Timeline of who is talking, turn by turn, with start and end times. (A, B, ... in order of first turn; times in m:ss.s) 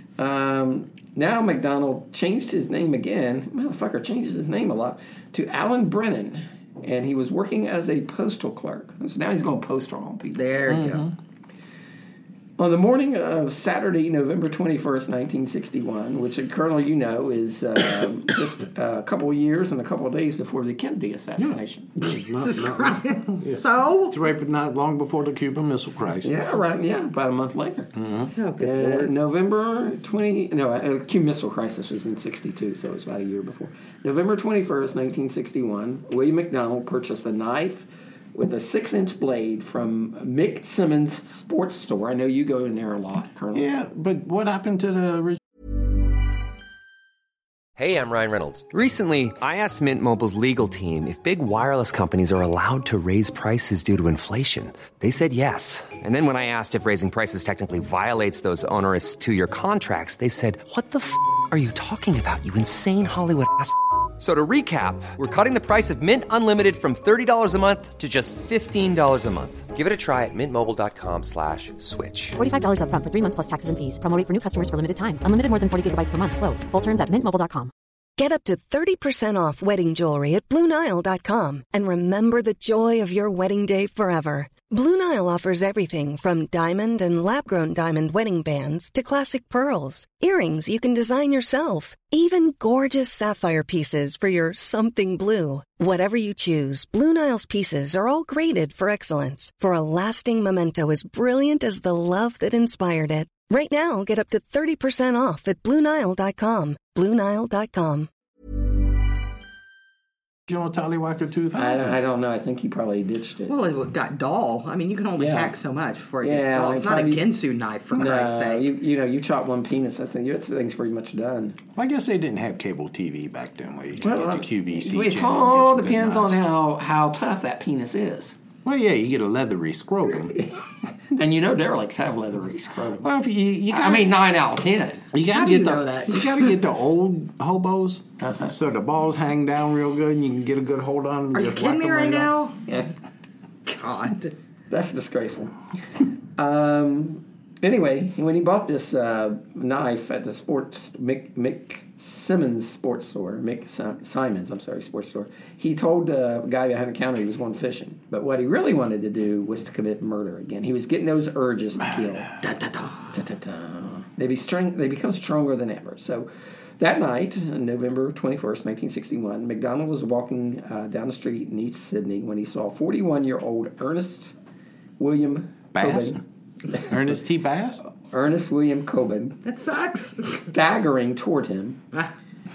0:00.2-0:10.5 A
0:10.3-0:11.0 B
0:10.7-0:11.1 C
0:12.6-0:22.2 A
0:21.4-0:26.4 C
0:22.4-0:24.2 B
0:26.2-0:27.9 A
0:27.9-0:28.3 C
0:28.4-0:29.1 B
0:28.6-0:43.6 A
0:43.5-0:45.4 C
0:47.8-1:12.4 D
1:12.4-1:17.7 E
1:18.2-1:48.1 F
1:50.5-1:52.0 C
1:51.5-1:53.5 A
1:53.5-1:58.7 B
1:55.2-1:55.5 A
1:56.2-1:57.2 A
1:57.9-2:01.6 A
2:01.8-2:06.4 C
2:04.0-2:08.4 A
2:08.6-2:10.4 C
2:11.1-2:13.1 A
2:13.0-2:14.1 C
2:13.7-2:15.1 A
2:15.1-2:22.3 C
2:15.3-2:16.5 B
2:18.2-2:18.5 A
2:21.3-2:22.6 B
2:23.6-2:24.3 B
2:24.7-2:25.5 A
2:26.4-2:42.3 A
2:41.8-2:42.3 C
2:42.4-2:43.0 B
2:43.1-2:54.3 A
2:55.0-2:56.2 A
2:55.7-2:56.2 C
2:56.8-2:57.8 C
2:58.1-2:59.4 A
2:59.4-3:00.4 B
3:00.3-3:01.8 A